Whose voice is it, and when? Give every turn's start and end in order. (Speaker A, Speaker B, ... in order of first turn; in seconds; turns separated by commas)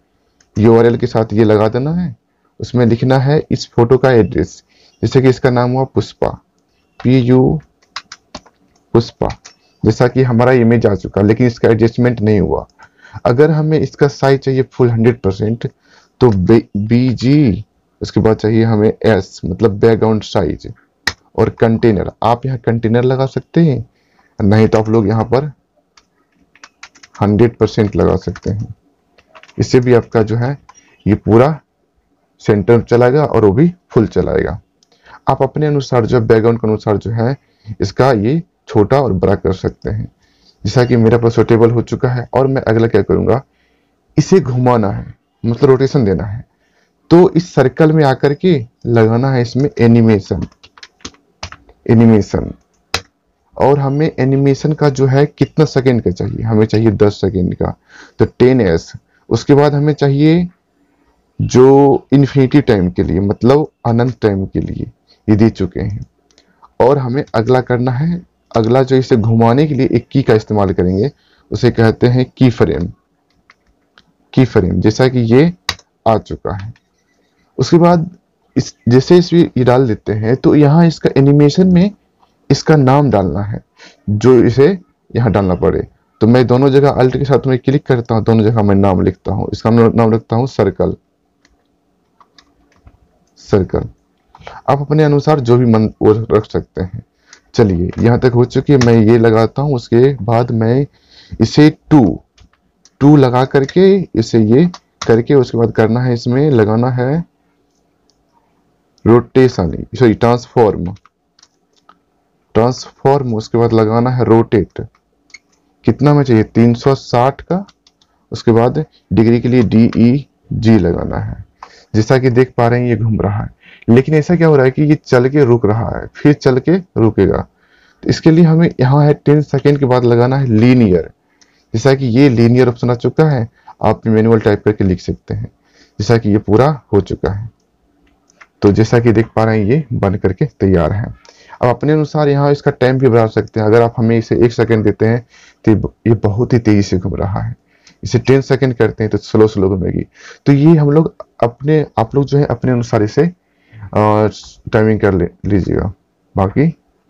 Speaker A: 0.6-6.4, Speaker A: 7.0-7.6, Speaker A: 8.9-12.7, Speaker A: 13.2-20.7, Speaker A: 21.3-23.9, Speaker A: 24.4-25.5, Speaker A: 27.2-28.7, Speaker A: 29.6-31.6, Speaker A: 32.4-34.6, Speaker A: 35.3-43.4, Speaker A: 44.2-46.5, Speaker A: 47.1-50.5, Speaker A: 51.9-52.6, Speaker A: 53.6-60.5, Speaker A: 61.4-66.1, Speaker A: 66.8-72.9, Speaker A: 74.3-76.8, Speaker A: 77.6-81.9, Speaker A: 82.5-91.0, Speaker A: 93.4-93.9, Speaker A: 94.7-102.2, Speaker A: 103.0-107.2, Speaker A: 109.0-111.0, Speaker A: 112.5-114.9, Speaker A: 115.8-117.7, Speaker A: 118.3-127.5, Speaker A: 128.0-131.1, Speaker A: 131.7-137.5, Speaker A: 138.6-153.3, Speaker A: 153.9-156.8